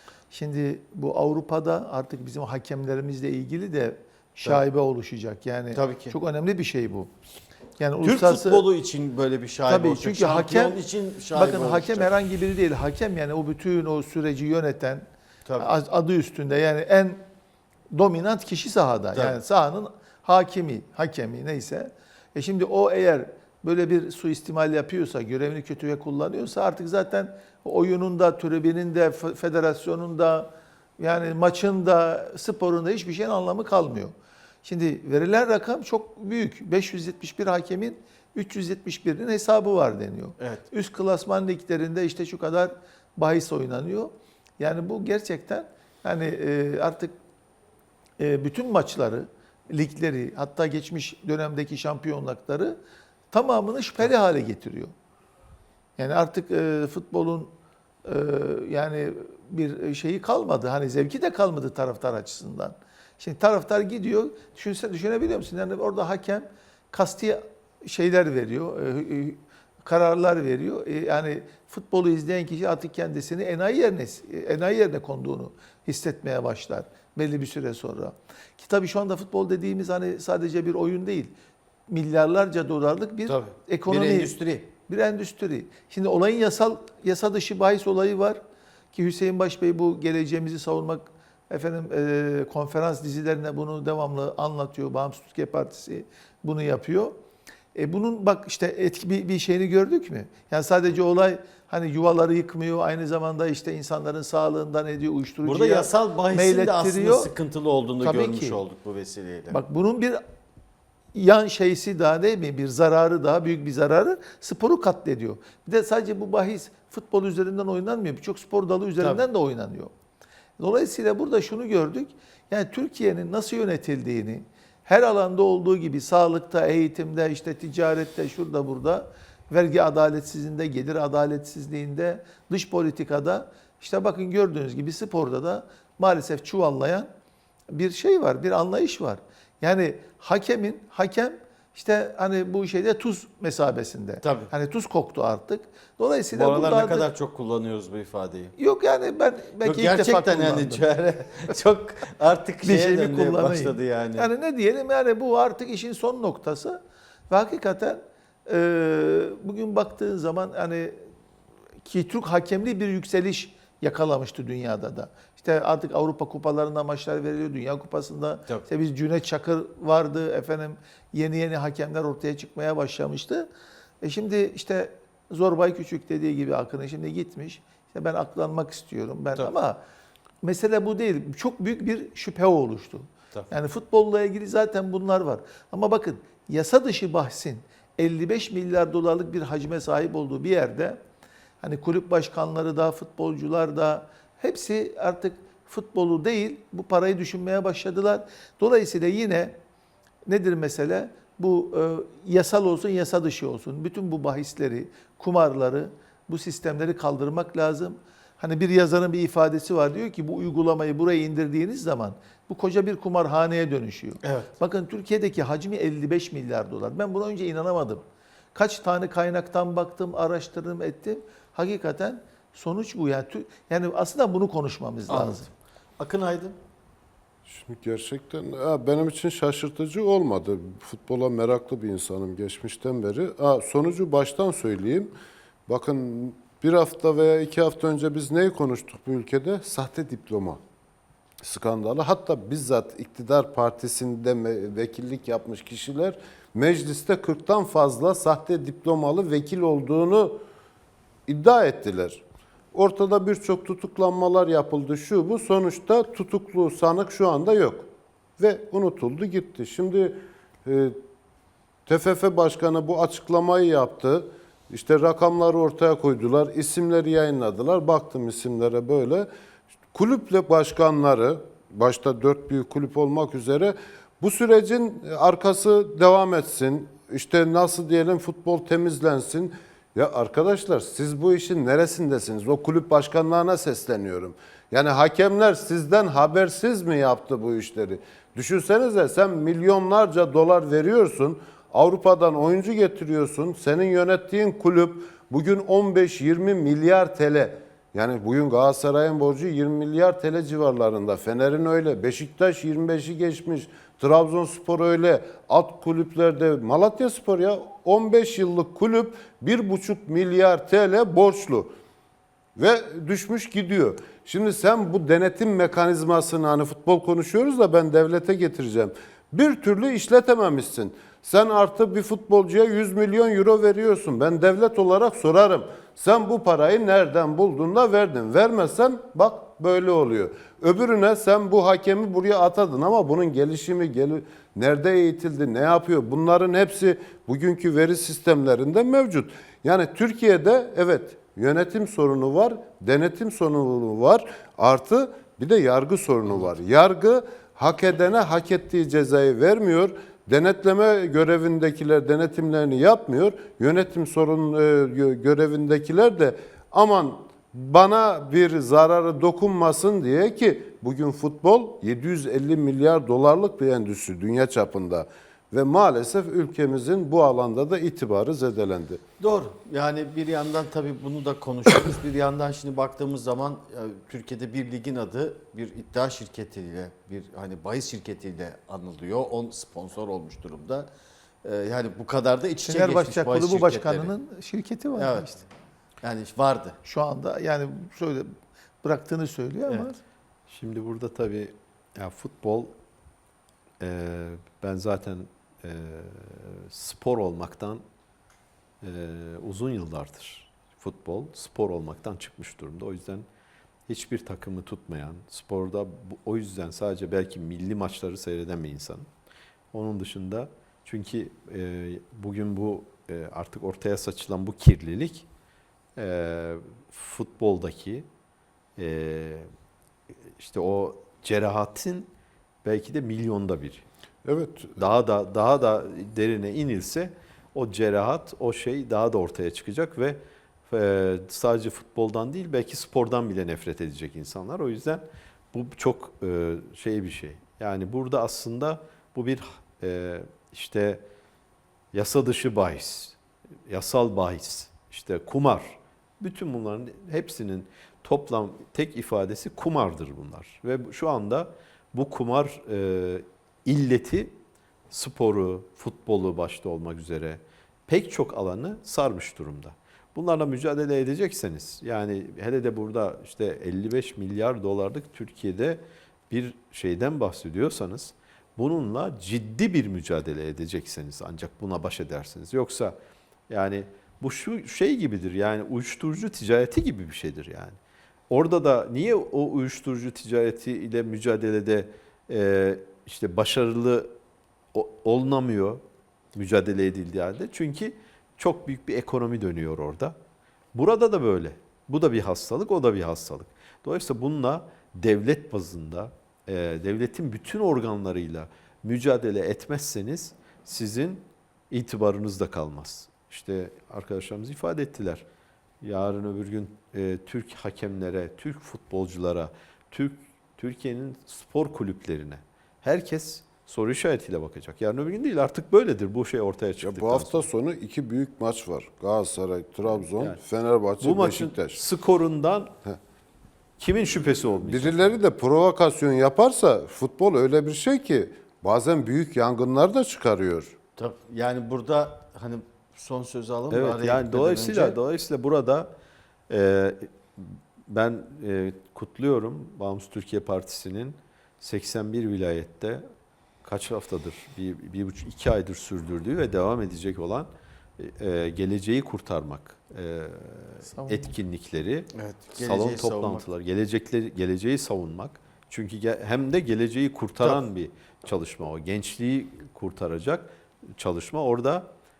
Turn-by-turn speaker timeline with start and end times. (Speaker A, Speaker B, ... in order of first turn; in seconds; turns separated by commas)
Speaker A: 0.3-7.1, Speaker B: 5.7-6.2, Speaker A: 7.8-8.7, Speaker B: 8.0-12.1, Speaker A: 9.7-10.8, Speaker A: 11.3-15.1, Speaker A: 15.6-17.2, Speaker A: 17.9-34.1, Speaker A: 34.6-47.1, Speaker B: 40.4-40.6, Speaker A: 48.2-52.8, Speaker A: 53.3-54.9, Speaker A: 56.0-57.5, Speaker A: 58.0-81.3, Speaker A: 81.9-84.3, Speaker B: 83.3-84.7, Speaker A: 84.9-88.4, Speaker A: 88.9-97.1, Speaker A: 97.7-107.3, Speaker B: 105.4-109.6, Speaker A: 108.0-108.6, Speaker A: 109.5-110.2, Speaker A: 111.1-119.9, Speaker A: 120.6-137.1, Speaker A: 137.7-147.1, Speaker B: 144.2-144.5, Speaker B: 146.3-148.5, Speaker A: 148.6-150.8, Speaker B: 149.6-154.3, Speaker A: 152.6-161.0, Speaker A: 161.8-173.5, Speaker A: 174.0-179.8, Speaker A: 180.4-191.0, Speaker A: 191.6-199.5, Speaker A: 200.3-218.0, Speaker B: 214.2-214.5, Speaker A: 218.5-225.5, Speaker B: 225.1-225.4, Speaker B: 226.0-226.6, Speaker C: 227.5-235.1, Speaker C: 235.7-240.6, Speaker C: 241.4-250.4, Speaker C: 251.3-252.2, Speaker C: 252.7-257.9, Speaker C: 258.4-260.9, Speaker C: 261.9-269.3, Speaker C: 269.9-311.7, Speaker C: 312.6-369.0, Speaker B: 369.2-380.9, Speaker B: 381.4-384.1, Speaker A: 382.6-385.4, Speaker B: 384.9-385.4, Speaker B: 386.0-386.8, Speaker A: 386.8-388.3, Speaker A: 388.8-390.0, Speaker D: 390.5-392.7, Speaker D: 393.8-397.8, Speaker D: 398.8-403.2, Speaker D: 403.9-409.1, Speaker D: 409.7-415.2, Speaker D: 415.9-418.1, Speaker D: 418.8-419.4, Speaker D: 420.4-422.1, Speaker D: 422.6-423.8, Speaker C: 424.2-424.9, Speaker D: 424.8-441.0, Speaker D: 441.9-454.3, Speaker D: 454.9-472.9, Speaker D: 473.5-477.8, Speaker D: 478.3-484.1, Speaker D: 484.7-485.8, Speaker D: 486.3-490.1, Speaker D: 490.7-505.2, Speaker D: 505.8-517.5, Speaker C: 516.8-521.8, Speaker D: 519.9-520.4, Speaker D: 521.0-522.7, Speaker D: 523.8-525.1, Speaker C: 524.6-530.7, Speaker B: 531.0-535.0, Speaker D: 533.7-535.9, Speaker D: 536.5-543.0, Speaker D: 543.6-561.9, Speaker A: 550.9-551.3, Speaker B: 552.1-553.4